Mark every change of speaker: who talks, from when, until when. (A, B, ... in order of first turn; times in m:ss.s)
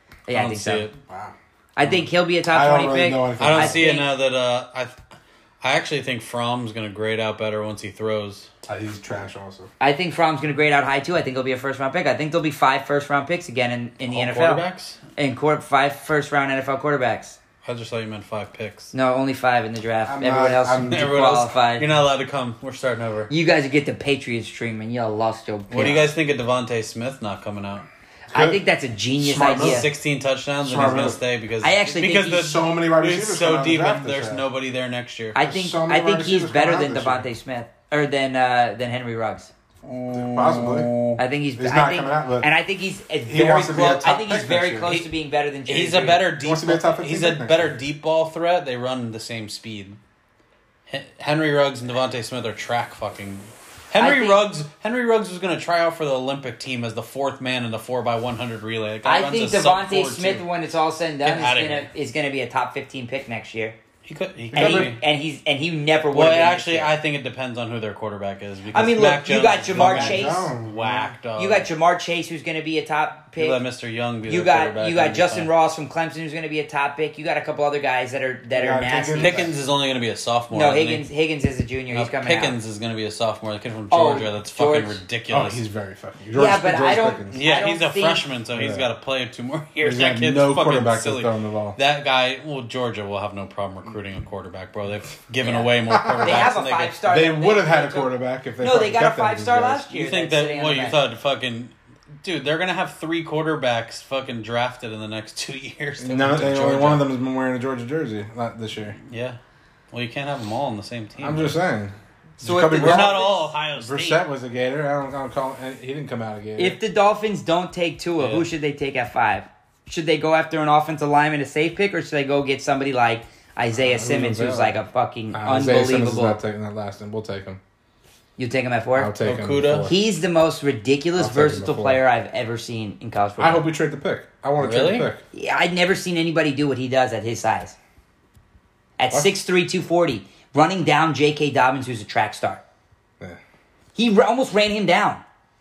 0:00.3-0:00.9 A
0:00.3-0:00.9 B
0:01.1-0:03.8 C
0:01.8-0:04.1 A
0:03.4-0:04.9 B
0:05.6-0:08.5 B
0:08.6-0:09.7 C
0:09.8-0:14.6 A
0:14.1-0:15.0 B
0:15.2-0:17.4 A
0:17.6-0:18.9 B
0:18.9-0:21.8 A
0:20.1-0:21.1 C
0:20.9-0:23.3 B
0:23.3-0:26.1 A
0:25.7-0:27.8 B
0:28.3-0:28.6 C
0:28.3-0:29.9 A
0:29.2-0:29.9 C
0:29.5-0:35.4 B
0:30.6-0:31.2 C
0:31.6-0:32.5 A
0:32.3-0:34.4 C
0:35.3-0:39.5 A
0:35.4-0:37.3 C
0:39.8-0:41.2 B
0:40.1-0:40.9 C
0:41.2-0:46.2 A
0:41.6-0:42.5 C
0:43.3-0:45.0 C
0:45.7-0:50.0 B
0:46.4-0:47.7 C
0:50.9-1:00.4 B
0:54.0-0:54.4 A
0:59.0-1:03.8 A
1:01.2-1:01.9 B
1:04.0-1:05.0 B
1:04.5-1:05.0 C
1:04.5-1:06.9 A
1:06.1-1:11.6 B
1:08.7-1:10.5 A
1:09.7-1:11.1 C
1:11.4-1:13.6 A
1:13.4-1:15.5 B
1:14.3-1:19.5 A
1:18.5-1:19.5 C
1:19.2-1:21.0 B
1:20.5-1:22.6 A
1:21.9-1:25.6 B
1:23.9-1:25.0 A
1:25.3-1:27.4 C
1:26.3-1:28.2 A
1:27.3-1:36.9 B
1:28.5-1:28.9 C
1:29.8-1:31.8 C
1:35.4-1:41.0 A
1:35.9-1:36.5 C
1:37.1-1:39.9 C
1:39.9-1:47.0 B
1:46.0-1:49.0 C
1:49.1-1:49.4 B
1:49.9-1:51.5 B
1:51.2-1:56.8 C
1:52.4-1:53.4 A
1:52.7-1:54.2 B
1:56.6-2:06.4 A
1:58.2-1:58.5 B
2:03.8-2:04.8 C
2:05.3-2:07.6 C
2:08.4-2:09.1 A
2:09.0-2:10.0 C
2:09.2-2:09.9 B
2:09.8-2:13.7 A
2:11.2-2:12.0 C
2:13.4-2:15.2 C
2:14.6-2:15.1 B
2:15.3-2:17.8 A
2:19.0-2:22.6 A
2:23.9-2:25.2 A